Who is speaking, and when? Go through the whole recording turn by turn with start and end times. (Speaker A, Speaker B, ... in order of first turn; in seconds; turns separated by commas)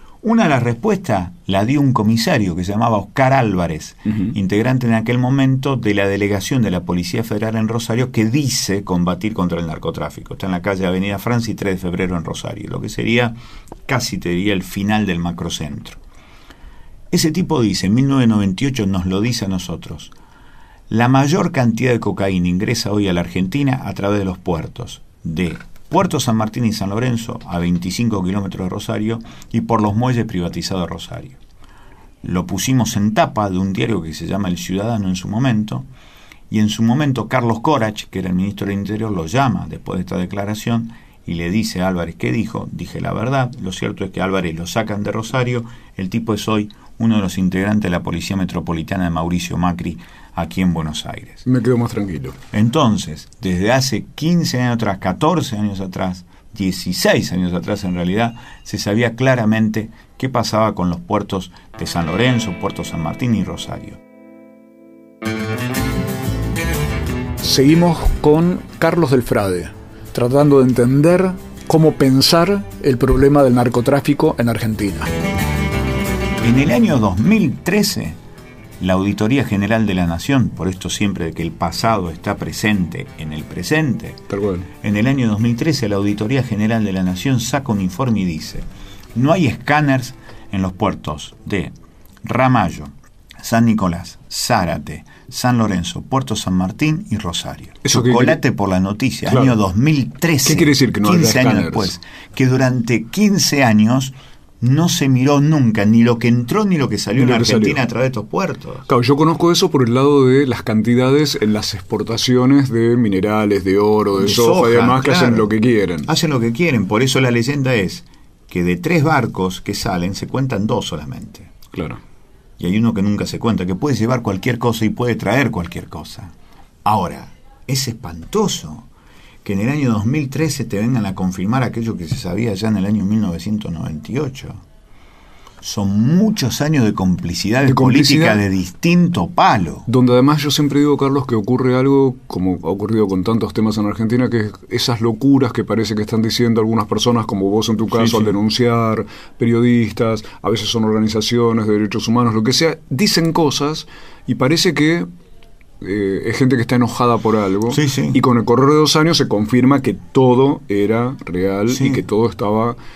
Speaker A: 0.2-13.3, Speaker B: 4.1-4.3, Speaker A: 13.9-16.0, Speaker A: 17.1-20.1, Speaker A: 20.9-31.4, Speaker A: 32.2-35.9, Speaker A: 36.5-51.5, Speaker B: 51.5-52.4, Speaker A: 52.5-64.0, Speaker C: 67.4-75.1, Speaker A: 76.4-78.2, Speaker A: 78.8-84.2, Speaker B: 84.3-84.7, Speaker A: 84.8-108.9, Speaker B: 97.8-98.4, Speaker B: 99.3-99.6, Speaker B: 100.5-101.9, Speaker B: 107.2-107.8, Speaker B: 108.9-116.1, Speaker A: 114.2-115.5, Speaker A: 116.1-121.5, Speaker B: 121.7-122.0, Speaker A: 122.6-126.3, Speaker A: 126.8-128.9, Speaker A: 129.4-134.6, Speaker A: 135.6-139.9, Speaker B: 137.7-138.4, Speaker B: 139.9-155.1, Speaker A: 147.9-148.4, Speaker B: 155.8-162.8, Speaker A: 157.7-158.2, Speaker A: 161.7-162.0